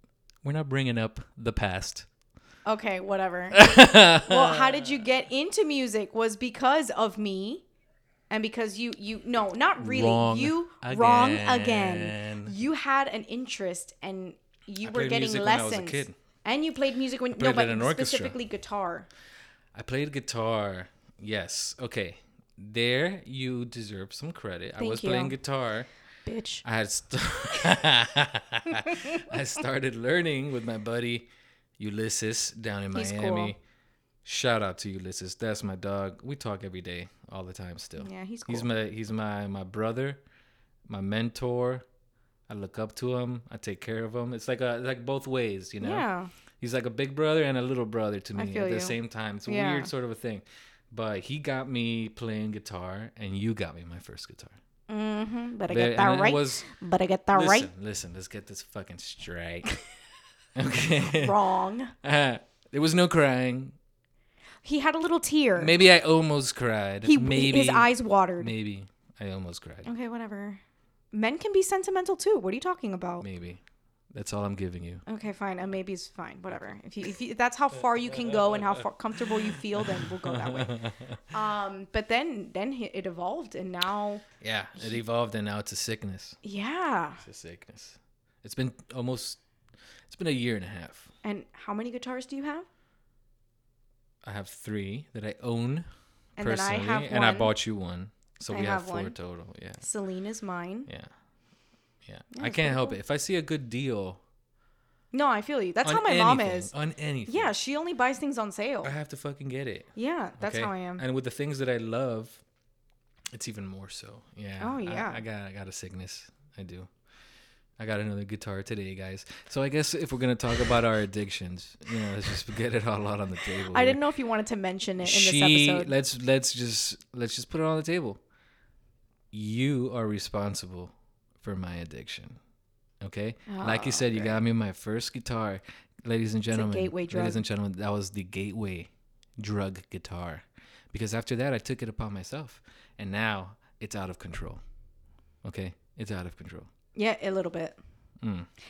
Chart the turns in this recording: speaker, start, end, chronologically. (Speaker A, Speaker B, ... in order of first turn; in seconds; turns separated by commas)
Speaker A: 0.4-2.1, Speaker B: 2.6-7.6, Speaker A: 3.5-5.0, Speaker B: 8.3-19.1, Speaker A: 9.8-12.5, Speaker A: 14.8-16.1, Speaker A: 17.3-18.4, Speaker A: 19.7-25.9, Speaker B: 24.8-25.3, Speaker B: 26.2-26.6, Speaker A: 26.6-31.3, Speaker B: 28.9-29.2, Speaker A: 31.8-33.6, Speaker B: 32.9-33.5, Speaker A: 34.2-40.2, Speaker B: 38.0-38.7, Speaker A: 40.9-41.8, Speaker A: 42.5-46.1, Speaker B: 45.8-46.3, Speaker A: 46.6-54.6, Speaker B: 48.4-49.9, Speaker B: 54.9-57.7, Speaker A: 55.7-56.7, Speaker A: 57.3-59.8, Speaker A: 60.5-61.4, Speaker B: 61.0-61.9, Speaker A: 62.0-63.8, Speaker B: 64.6-65.7, Speaker A: 65.5-69.9, Speaker B: 67.0-68.5, Speaker B: 69.8-70.6, Speaker B: 71.1-73.2, Speaker A: 73.2-75.0, Speaker B: 75.0-84.2, Speaker A: 78.1-78.9, Speaker A: 79.4-81.2, Speaker A: 84.4-86.4, Speaker B: 86.4-87.2, Speaker A: 87.2-89.4, Speaker A: 90.1-91.1, Speaker B: 91.2-92.7, Speaker A: 94.2-99.8, Speaker B: 96.4-97.5, Speaker B: 98.5-99.2, Speaker B: 99.8-100.9, Speaker A: 102.0-104.2, Speaker B: 102.3-103.0, Speaker B: 105.1-106.7, Speaker A: 105.8-107.5, Speaker B: 107.3-108.9, Speaker A: 108.8-112.4, Speaker B: 110.0-111.0, Speaker A: 113.3-116.9, Speaker B: 114.6-115.2, Speaker A: 117.8-124.0, Speaker B: 123.6-125.9, Speaker A: 125.0-128.2, Speaker A: 129.3-132.4, Speaker A: 133.0-144.6, Speaker B: 133.5-134.4, Speaker B: 136.5-137.4, Speaker A: 145.4-146.7, Speaker B: 146.9-147.8, Speaker A: 148.2-148.5